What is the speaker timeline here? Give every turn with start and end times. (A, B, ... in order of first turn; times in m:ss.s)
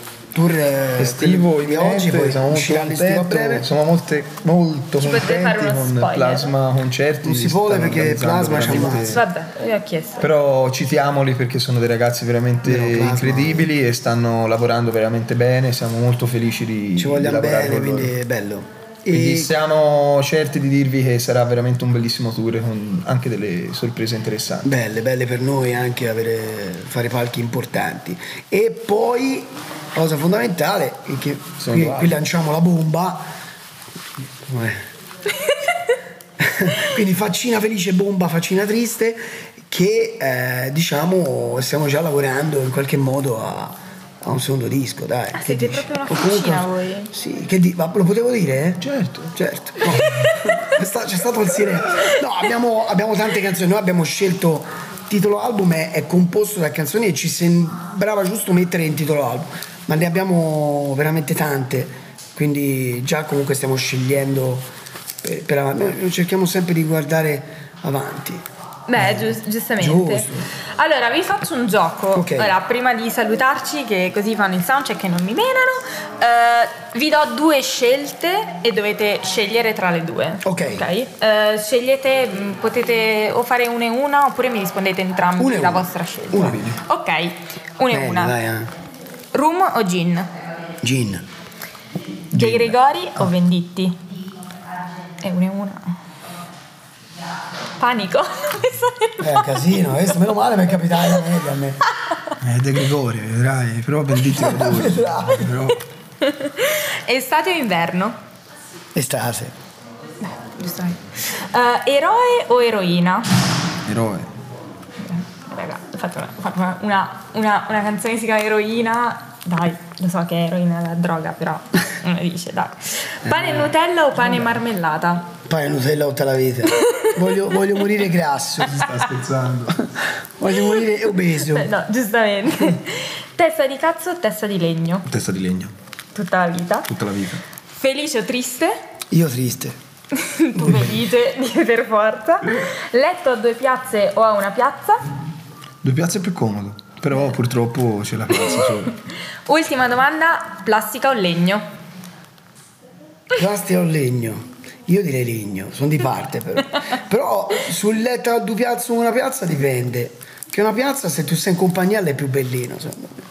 0:00.3-0:03.7 A
0:01.0-0:09.2 B
0:05.0-0:06.5 C
0:07.2-0:09.2 A
0:08.7-0:10.3 C
0:10.2-0:18.1 B
0:12.6-0:13.7 A
0:17.0-0:19.5 A
0:19.1-0:24.7 B
0:24.6-0:33.2 A
0:31.6-0:32.2 B
0:34.4-0:34.8 A
0:36.4-0:48.8 A
0:45.4-0:47.1 C
0:48.8-0:50.3 B
0:49.4-1:04.7 A
1:05.2-1:08.4 A
1:08.9-1:28.3 C
1:09.0-1:10.4 A
1:12.1-1:12.6 A
1:20.4-1:20.8 A
1:25.4-1:26.8 A
1:27.9-1:28.7 A
1:29.3-1:30.3 C
1:30.8-1:31.2 A
1:32.3-1:34.0 C
1:32.3-1:32.7 B
1:35.2-1:36.0 C
1:37.8-1:39.5 C
1:39.2-1:41.8 A
1:42.1-1:42.3 C
1:42.4-1:45.8 B
1:44.1-1:45.6 A
1:46.2-1:48.2 C
1:49.0-1:49.5 A
1:50.4-1:53.3 C
1:53.9-1:54.3 B
1:55.0-2:05.3 C
2:03.3-2:03.6 A
2:05.5-2:08.8 A
2:06.7-2:07.6 C
2:08.6-2:09.8 B
2:10.4-2:11.7 A
2:11.4-2:15.1 C
2:15.1-2:15.7 B
2:16.1-2:16.9 C
2:16.9-2:17.4 B
2:17.8-2:18.8 C
2:19.1-2:19.8 A
2:20.2-2:25.0 C
2:20.6-2:20.9 A
2:25.8-2:28.9 B
2:28.3-2:28.8 C
2:29.5-2:31.6 C
2:33.3-2:43.2 A